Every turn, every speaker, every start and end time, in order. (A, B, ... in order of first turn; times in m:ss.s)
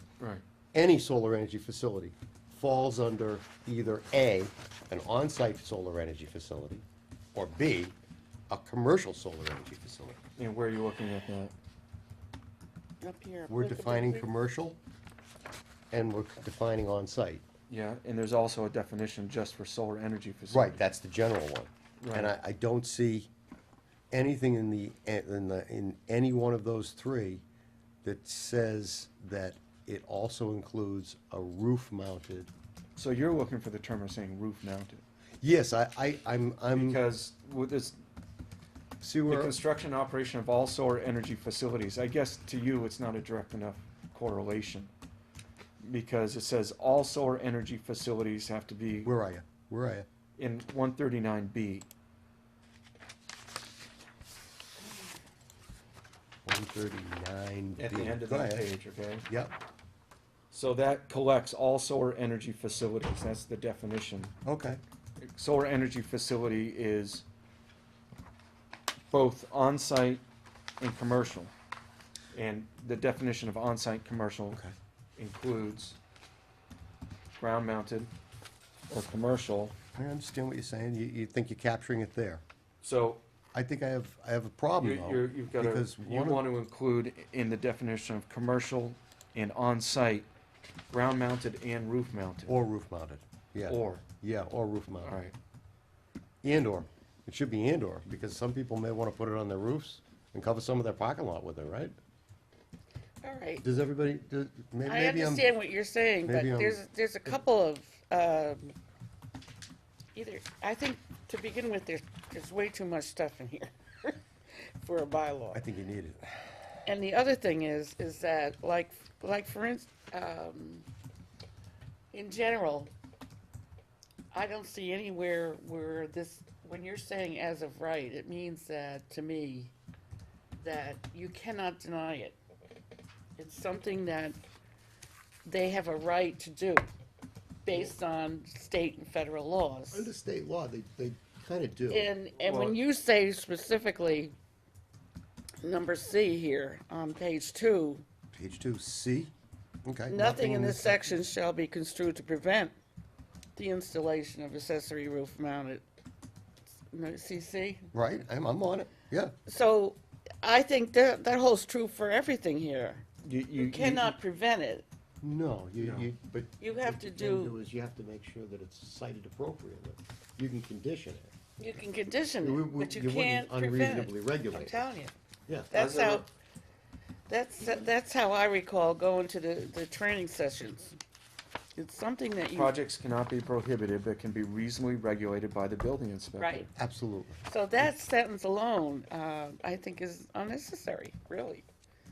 0:00.2-0:00.4 A
0:00.7-0:07.9 B
0:08.5-0:10.2 B
0:10.4-0:11.5 A
0:13.0-0:14.3 C
0:13.5-0:14.8 B
0:15.9-0:17.4 B
0:17.7-0:20.8 A
0:20.5-0:23.3 B
0:22.0-0:22.3 A
0:24.1-0:27.4 B
0:28.0-0:32.5 B
0:33.0-0:35.0 A
0:35.4-0:37.0 B
0:36.7-0:38.0 A
0:39.0-0:39.5 B
0:39.2-0:44.9 A
0:45.8-0:49.1 A
0:49.0-0:50.1 B
0:50.4-0:51.9 A
0:56.4-0:58.7 B
0:57.8-0:59.2 A
0:59.3-0:59.6 B
1:00.5-1:04.3 A
1:04.4-1:04.8 B
1:05.2-1:07.2 A
1:09.1-1:10.2 A
1:10.8-1:11.5 A
1:12.3-1:14.6 A
1:15.2-1:16.0 A
1:17.4-1:18.1 A
1:18.9-1:19.7 A
1:19.9-1:22.4 B
1:22.8-1:23.2 A
1:23.5-1:26.4 B
1:24.8-1:30.3 A
1:30.9-1:32.5 A
1:32.5-1:35.2 B
1:33.7-1:34.0 A
1:35.0-1:35.3 A
1:36.4-1:41.9 B
1:43.2-1:43.6 C
1:43.6-1:45.5 B
1:44.8-1:48.7 C
1:46.2-1:46.8 B
1:50.1-1:54.2 C
1:54.8-1:55.6 C
1:55.5-1:56.3 B
1:56.8-2:00.9 C
2:02.1-2:02.9 C
2:04.3-2:09.7 C
2:10.6-2:12.4 C
2:13.4-2:14.4 C
2:15.5-2:16.9 C
2:17.6-2:20.1 C
2:19.9-2:22.1 B
2:21.9-2:24.3 C
2:22.4-2:22.8 A
2:25.6-2:28.0 C
2:28.3-2:29.3 B
2:29.8-2:31.2 B
2:30.1-2:32.7 C
2:33.6-2:35.8 C
2:36.9-2:37.9 C
2:37.9-2:39.3 B
2:39.5-2:43.0 C
2:43.2-2:44.2 A
2:43.6-2:44.8 C
2:45.2-2:51.3 B
2:45.8-2:46.1 A
2:46.6-2:47.6 C
2:51.6-2:55.1 C
2:52.4-2:54.8 B
2:55.5-2:55.7 B
2:55.7-2:56.2 C
2:55.7-2:56.3 A
2:57.3-3:01.0 C
3:01.8-3:02.7 C
3:02.5-3:06.6 A
3:06.4-3:06.7 C
3:06.8-3:07.4 B
3:07.5-3:11.6 C